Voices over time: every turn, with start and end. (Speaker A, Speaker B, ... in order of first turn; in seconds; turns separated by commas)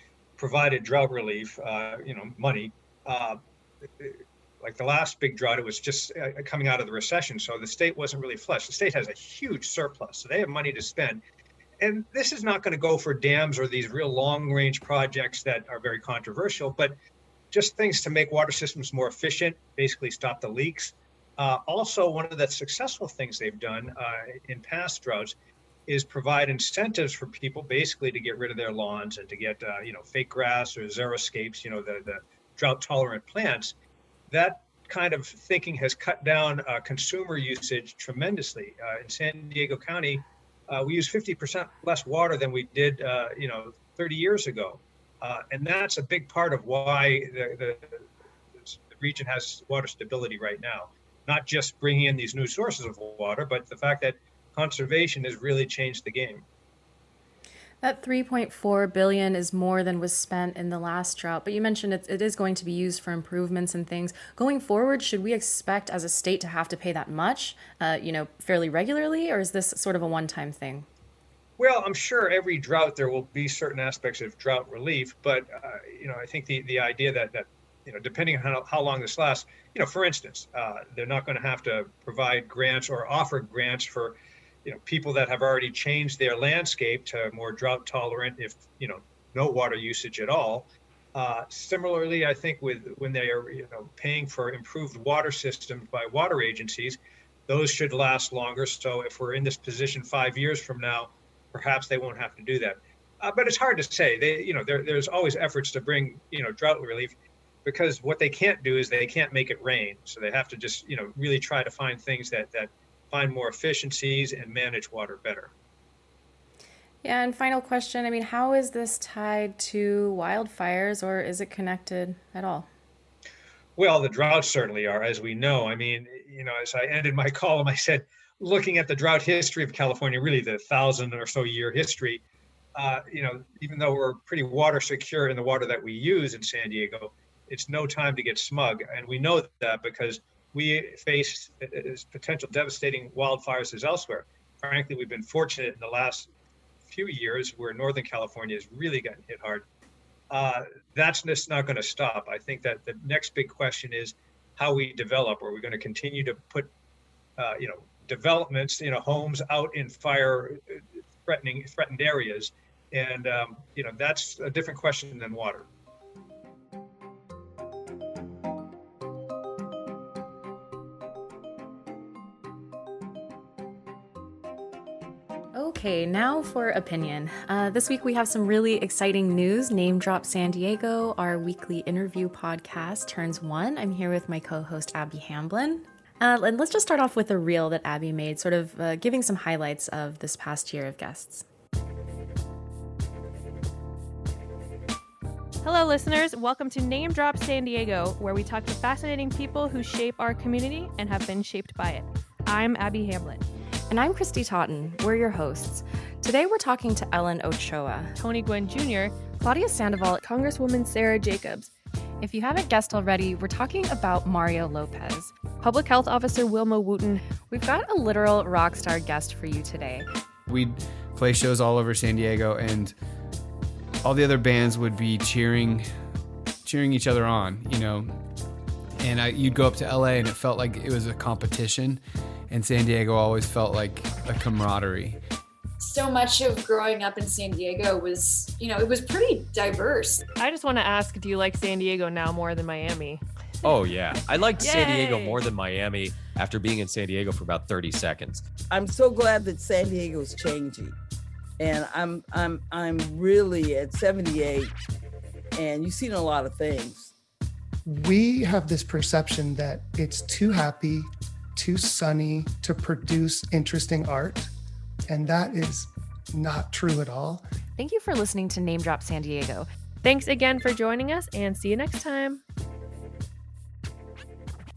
Speaker A: 0.4-3.4, Speaker A: 4.0-11.2, Speaker A: 11.8-16.9, Speaker A: 17.5-25.3, Speaker A: 25.9-33.7, Speaker A: 34.3-48.0, Speaker A: 48.6-56.4, Speaker B: 57.8-70.9, Speaker A: 71.6-115.5, Speaker B: 117.0-122.7, Speaker A: 123.8-132.2, Speaker A: 132.8-146.3, Speaker A: 146.9-149.7, Speaker A: 150.3-156.7, Speaker A: 157.4-165.7, Speaker B: 175.5-191.4, Speaker C: 195.6-203.4, Speaker B: 203.9-208.1, Speaker C: 208.2-209.2, Speaker B: 209.4-210.2, Speaker C: 210.2-211.7, Speaker B: 212.2-215.3, Speaker C: 215.6-217.2, Speaker B: 217.5-220.1, Speaker D: 220.5-222.9, Speaker D: 224.0-225.9, Speaker D: 226.6-228.2, Speaker D: 229.0-235.2, Speaker E: 235.8-240.2, Speaker C: 240.4-243.2, Speaker F: 243.6-248.4, Speaker C: 244.6-245.4, Speaker G: 248.7-250.9, Speaker G: 251.6-254.7, Speaker G: 255.6-257.1, Speaker H: 257.9-264.5, Speaker H: 265.1-267.4, Speaker B: 267.8-269.6, Speaker C: 270.0-272.4